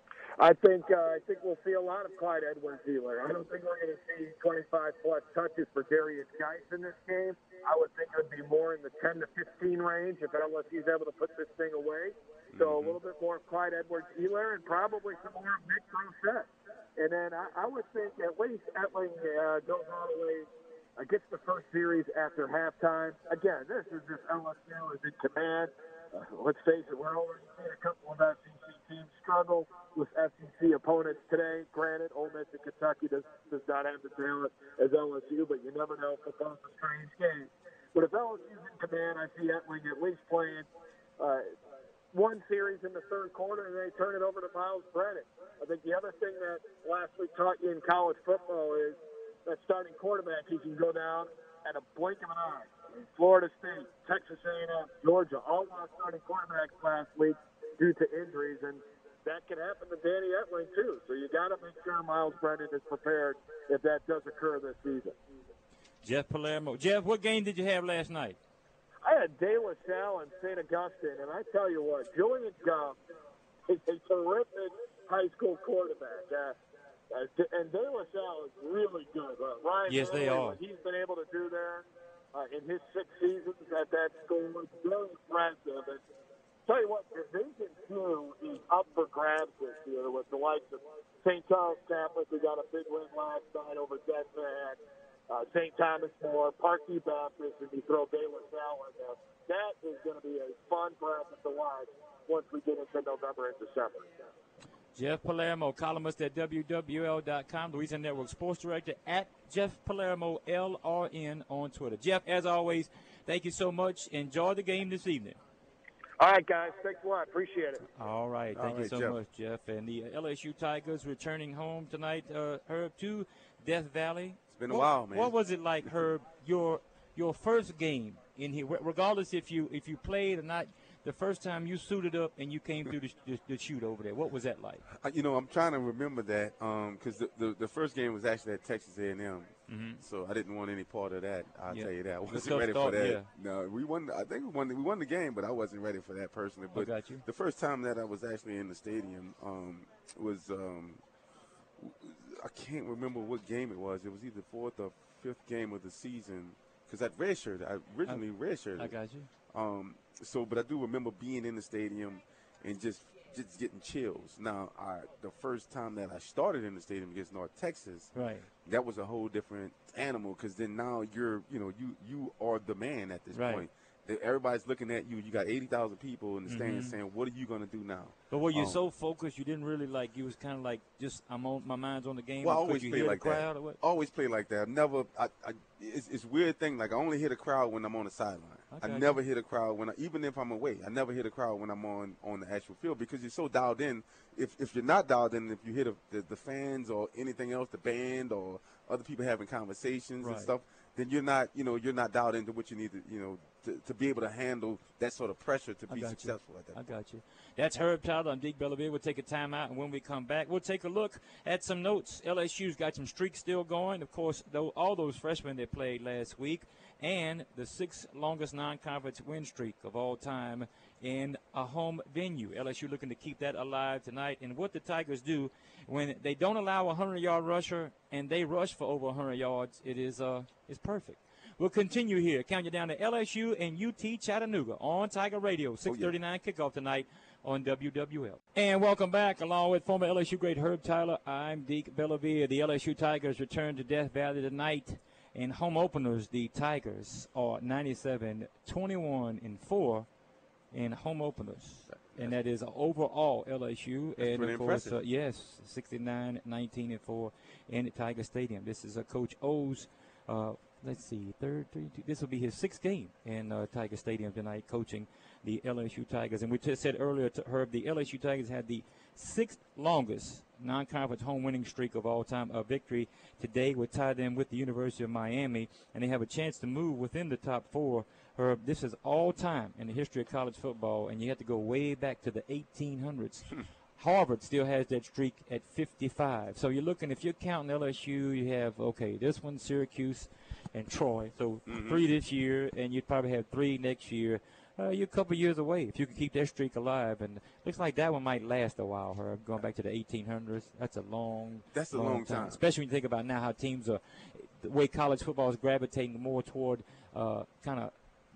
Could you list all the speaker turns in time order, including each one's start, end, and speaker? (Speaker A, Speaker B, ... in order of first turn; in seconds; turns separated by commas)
Speaker A: 0.4-40.7, Speaker B: 12.5-13.0, Speaker A: 41.2-41.5, Speaker A: 42.1-65.2, Speaker C: 66.0-68.4, Speaker A: 69.0-73.0, Speaker A: 73.7-76.6, Speaker A: 77.1-86.0, Speaker C: 79.9-80.6, Speaker A: 86.7-104.3, Speaker C: 104.9-115.4, Speaker A: 116.2-117.8, Speaker C: 118.0-134.8, Speaker B: 118.5-119.2, Speaker B: 124.5-125.3, Speaker B: 134.9-151.0, Speaker C: 139.7-140.0, Speaker C: 141.7-143.3, Speaker C: 146.7-147.2, Speaker B: 151.8-158.9, Speaker C: 158.8-159.3, Speaker B: 159.5-168.1, Speaker C: 168.2-168.5, Speaker B: 168.7-178.8, Speaker C: 173.3-173.7, Speaker C: 176.5-177.0, Speaker C: 178.3-183.8, Speaker B: 182.4-206.8, Speaker C: 188.7-189.2, Speaker C: 200.2-200.5, Speaker C: 205.9-250.1, Speaker B: 235.9-236.1, Speaker C: 250.7-307.9, Speaker B: 251.9-252.4, Speaker B: 254.2-255.0, Speaker B: 291.7-292.1, Speaker B: 301.7-302.6